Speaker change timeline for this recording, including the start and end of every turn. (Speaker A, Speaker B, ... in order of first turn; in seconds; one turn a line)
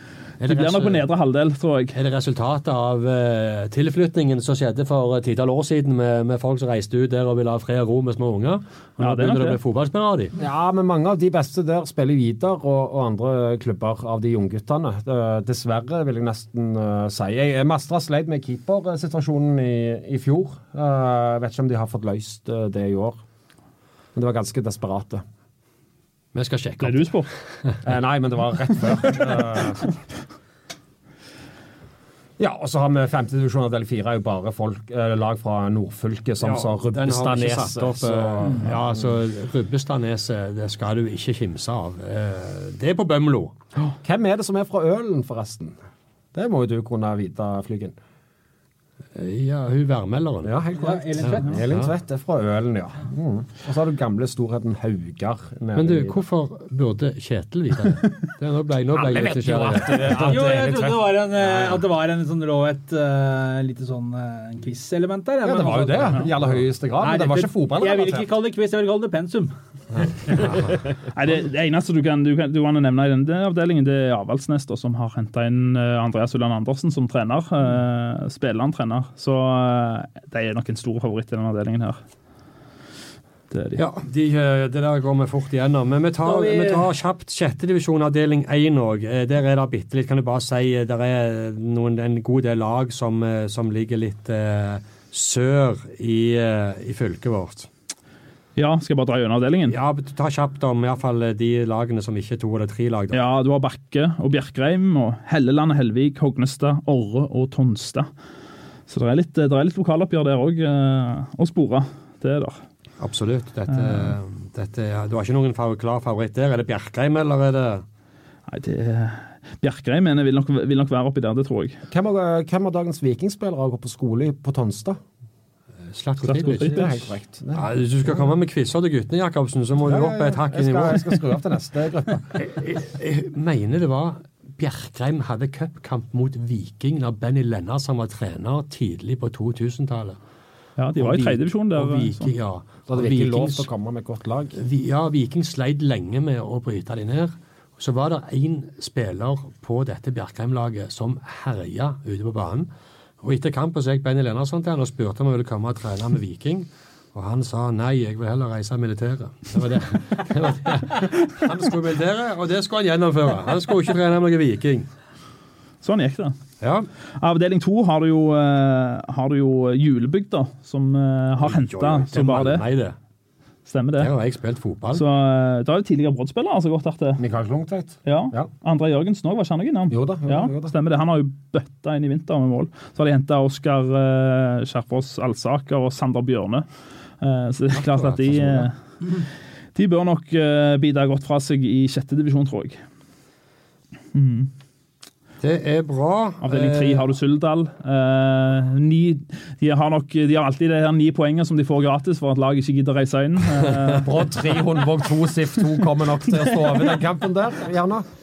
Speaker A: 0.4-1.0
Speaker B: 0.4-1.9
Speaker A: 1.9-10.3
Speaker B: 9.0-9.6
Speaker C: 10.4-23.2
Speaker C: 24.1-25.2
Speaker A: 26.3-27.8
Speaker B: 26.8-27.3
Speaker C: 27.8-29.9
Speaker B: 29.1-29.9
Speaker C: 32.4-39.0
Speaker A: 36.4-43.5
Speaker C: 44.0-45.8
Speaker C: 46.3-48.0
Speaker A: 49.1-50.5
Speaker C: 50.4-56.2
Speaker D: 50.8-51.6
Speaker A: 51.2-51.9
Speaker A: 55.7-60.5
Speaker C: 58.9-61.8
Speaker D: 60.2-66.2
Speaker C: 65.4-68.2
Speaker D: 67.0-69.5
Speaker B: 71.1-82.0
Speaker B: 83.5-83.8
Speaker A: 83.8-97.7
Speaker D: 86.2-86.9
Speaker B: 98.5-99.8
Speaker A: 99.7-103.2
Speaker B: 103.1-108.1
Speaker B: 108.9-112.6
Speaker A: 113.0-117.8
Speaker B: 113.7-114.1
Speaker B: 118.5-121.8
Speaker C: 121.9-125.0
Speaker A: 125.9-126.9
Speaker B: 126.2-127.1
Speaker C: 126.4-127.7
Speaker A: 127.5-131.0
Speaker C: 129.8-132.3
Speaker A: 132.3-140.2
Speaker B: 140.8-142.3
Speaker A: 141.0-143.7
Speaker C: 142.9-144.6
Speaker A: 144.6-152.7
Speaker A: 153.2-164.9
Speaker B: 165.8-166.3
Speaker A: 166.6-166.9
Speaker B: 167.1-172.6
Speaker A: 171.4-172.9
Speaker B: 173.7-174.1
Speaker A: 173.9-175.0
Speaker B: 174.9-177.2
Speaker C: 177.2-178.5
Speaker B: 178.0-186.7
Speaker C: 179.9-180.7
Speaker B: 187.2-192.8
Speaker A: 187.7-188.7
Speaker B: 194.1-194.5
Speaker A: 195.4-197.1
Speaker B: 196.4-204.8
Speaker C: 204.0-208.1
Speaker B: 206.3-207.0